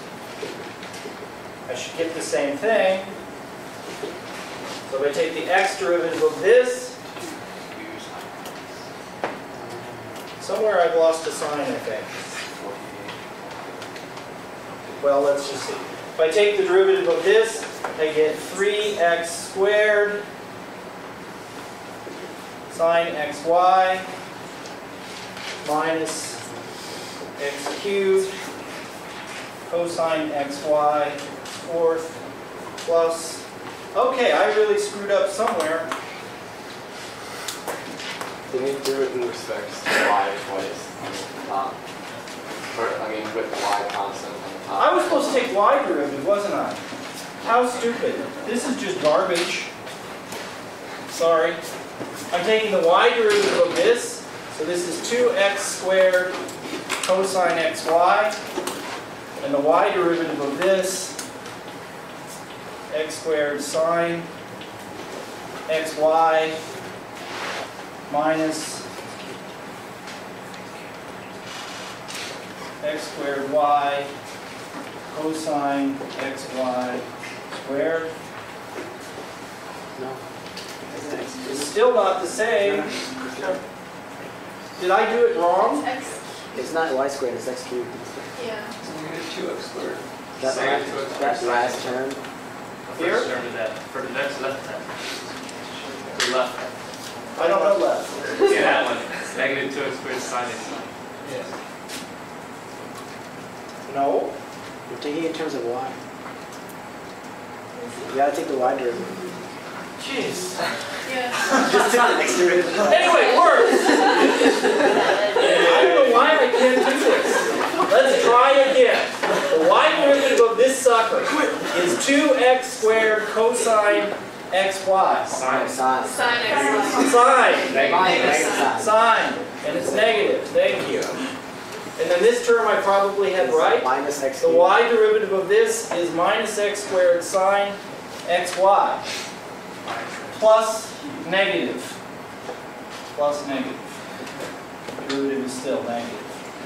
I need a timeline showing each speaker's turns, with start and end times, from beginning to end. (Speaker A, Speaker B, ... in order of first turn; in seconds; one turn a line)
Speaker A: 1.7-3.1
Speaker A: 4.9-6.9
Speaker B: 7.7-8.2
Speaker C: 9.6-9.9
Speaker A: 10.4-12.1
Speaker D: 12.6-13.1
Speaker A: 15.0-20.2
Speaker A: 22.7-24.1
Speaker A: 25.6-26.4
Speaker A: 27.4-28.3
Speaker A: 29.7-32.2
Speaker A: 32.8-33.4
Speaker A: 33.9-35.9
Speaker D: 38.5-41.8
Speaker D: 42.7-45.5
Speaker A: 44.8-46.8
Speaker A: 47.4-49.7
Speaker A: 51.1-51.6
Speaker A: 52.3-56.4
Speaker A: 57.0-58.4
Speaker A: 59.4-61.2
Speaker A: 62.9-64.3
Speaker A: 65.7-66.6
Speaker A: 68.1-68.8
Speaker A: 72.8-74.1
Speaker A: 75.1-77.0
Speaker A: 77.5-78.1
Speaker C: 79.9-80.2
Speaker C: 80.9-83.5
Speaker A: 81.5-82.9
Speaker A: 84.8-85.9
Speaker E: 85.4-86.2
Speaker C: 86.5-88.3
Speaker E: 88.3-88.7
Speaker C: 90.4-92.2
Speaker B: 90.4-91.7
Speaker D: 90.5-91.7
Speaker B: 92.8-95.2
Speaker A: 93.0-93.3
Speaker B: 96.1-96.6
Speaker C: 97.3-98.4
Speaker A: 97.3-98.3
Speaker B: 98.3-101.5
Speaker D: 98.5-98.8
Speaker A: 103.8-104.3
Speaker C: 104.9-106.0
Speaker C: 107.9-109.1
Speaker A: 110.0-110.5
Speaker E: 111.0-111.6
Speaker C: 111.5-113.3
Speaker A: 112.8-114.4
Speaker A: 115.3-125.5
Speaker B: 125.4-125.7
Speaker C: 125.4-130.1
Speaker E: 126.1-128.7
Speaker A: 126.9-131.2
Speaker A: 132.0-139.0
Speaker C: 133.3-134.8
Speaker A: 140.3-141.9
Speaker A: 143.1-143.9
Speaker A: 145.0-146.2